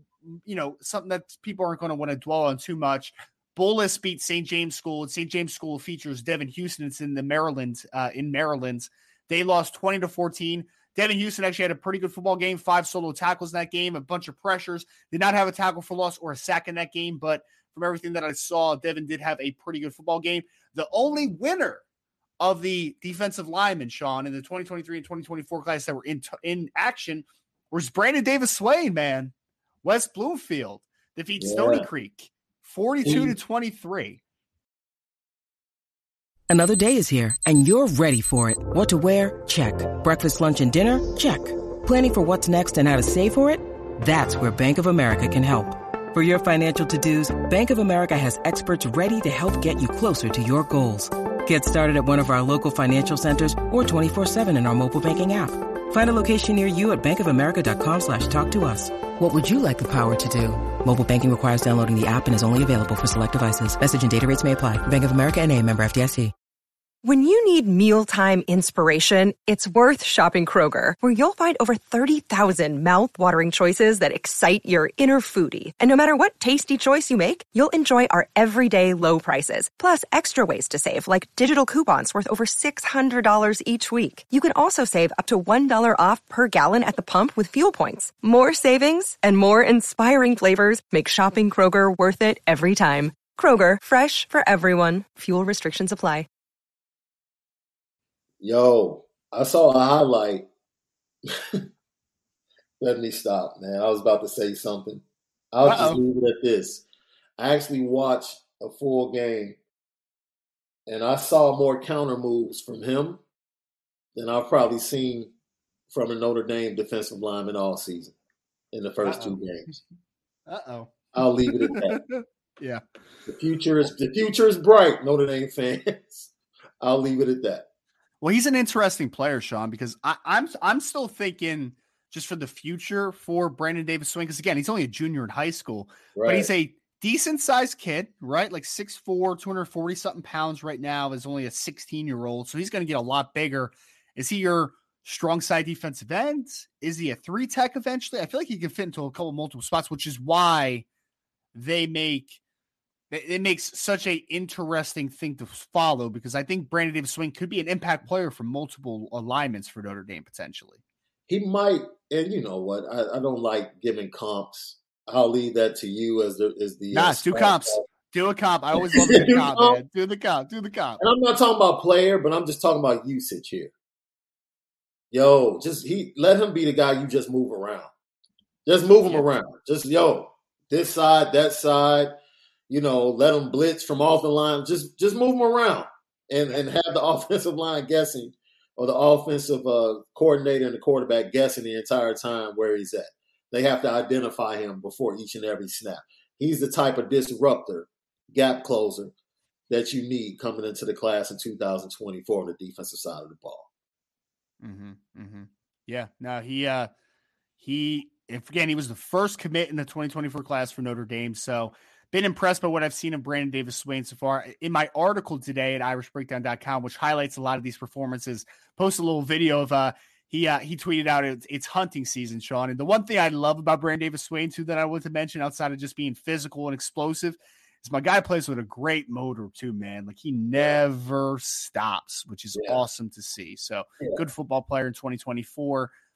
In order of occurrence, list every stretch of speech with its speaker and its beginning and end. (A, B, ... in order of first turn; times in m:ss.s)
0:00.2-0:21.8 A
0:22.4-0:34.2 A
0:31.4-0:31.9 B
0:33.0-0:33.3 B
0:36.5-1:06.3 C
1:07.0-1:36.3 D
1:38.4-1:40.5 B
1:42.8-1:46.8 B
1:45.6-1:46.0 A
1:47.4-1:49.6 B
1:50.9-1:53.2 B
1:54.2-1:55.3 B
1:55.9-1:58.1 B
1:58.7-1:59.7 B
1:59.0-1:59.8 A
2:00.5-2:02.8 A
2:01.1-2:02.0 B
2:03.3-2:06.3 B
2:06.8-2:07.6 B
2:08.2-2:30.8 A
2:16.1-2:16.5 B
2:31.5-2:32.4 A
2:33.1-2:40.8 A
2:41.3-2:47.8 B
2:46.9-2:51.0 A
2:48.8-2:49.8 B
2:51.0-2:53.7 B
2:55.1-2:57.9 B
2:58.6-3:02.1 B
3:02.7-3:19.1 B
3:19.7-3:23.7 B
3:24.6-3:26.9 A
3:27.6-3:55.9 A
3:52.5-3:52.8 B